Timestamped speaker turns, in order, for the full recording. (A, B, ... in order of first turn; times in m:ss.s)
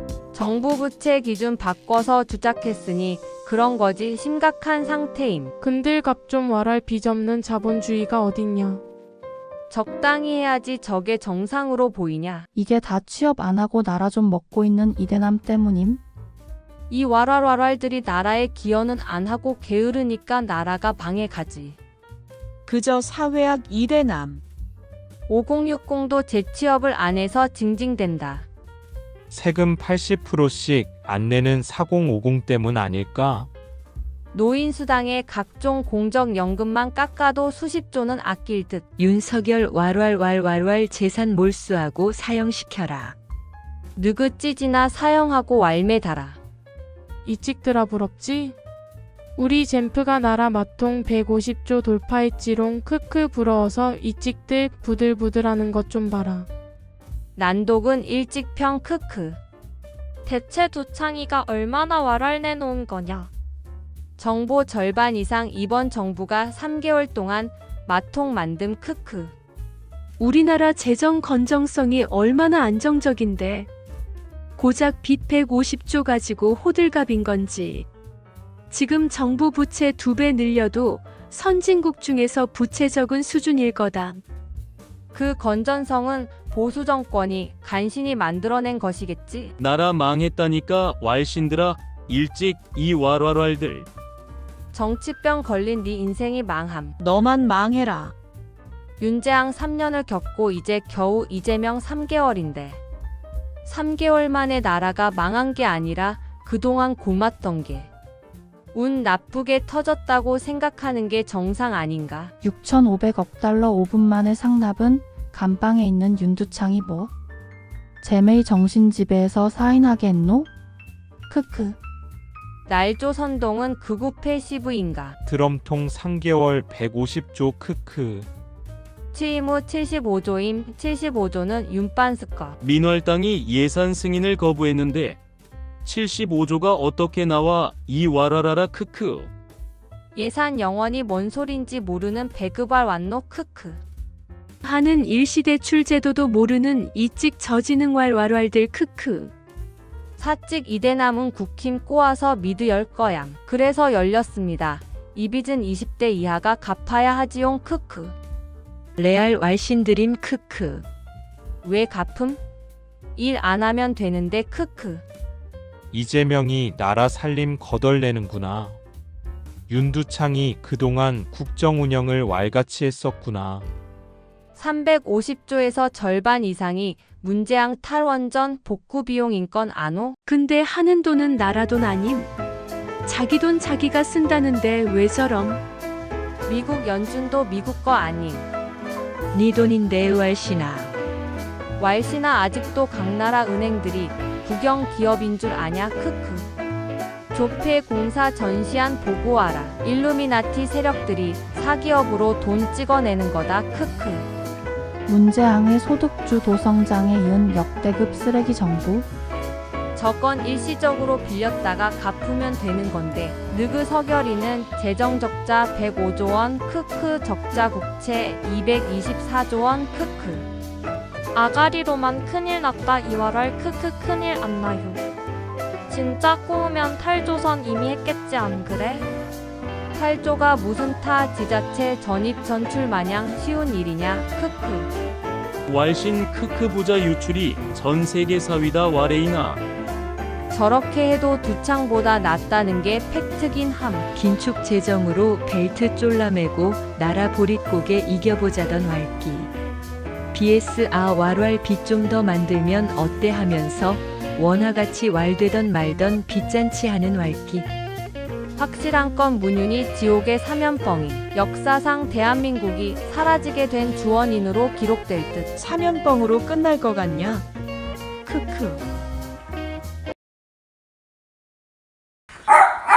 0:00.3-0:05.5 A
0:05.6-0:08.8 B
0:09.7-0:12.5 A
0:12.5-0:16.0 C
0:16.9-0:21.8 A
0:25.3-0:28.5 A
0:29.3-0:33.5 D
0:34.3-0:38.9 A
0:39.0-0:43.2 E
0:44.0-0:46.4 A
0:47.3-0:48.6 B
0:49.4-0:56.5 B
0:57.4-0:59.4 A
1:00.3-1:03.3 F
1:04.2-1:09.3 A
1:10.2-1:13.7 G
1:14.6-1:17.9 G
1:18.7-1:24.2 G
1:25.1-1:29.5 A
1:29.6-1:33.9 H
1:34.7-1:37.0 A
1:39.0-1:42.8 A
1:43.6-1:47.9 A
1:48.7-1:52.3 A
1:52.4-1:57.1 C
1:58.0-2:00.5 C
2:01.3-2:01.8 C
2:02.7-2:05.2 A
2:05.2-2:08.3 D
2:09.1-2:12.6 A
2:12.6-2:15.2 H
2:15.8-2:19.3 H
2:20.2-2:23.8 A
2:24.6-2:29.3 G
2:30.2-2:38.2 A
2:39.0-2:40.8 E
2:41.6-2:42.4 A
2:43.2-2:45.0 A
2:45.9-2:48.8 D
2:49.7-2:53.7 D
2:54.6-3:00.2 A
3:00.3-3:02.3 G
3:03.0-3:05.6 G
3:06.5-3:08.5 A
3:09.3-3:10.9 E
3:11.8-3:16.5 A
3:17.3-3:24.3 A
3:25.1-3:29.1 C
3:30.0-3:40.5 A
3:41.3-3:45.0 F
3:45.9-3:49.1 F
3:49.9-3:54.9 A
3:55.7-3:59.6 H
4:00.5-4:04.1 A
4:04.2-4:09.5 E
4:10.3-4:17.7 E
4:18.6-4:25.5 A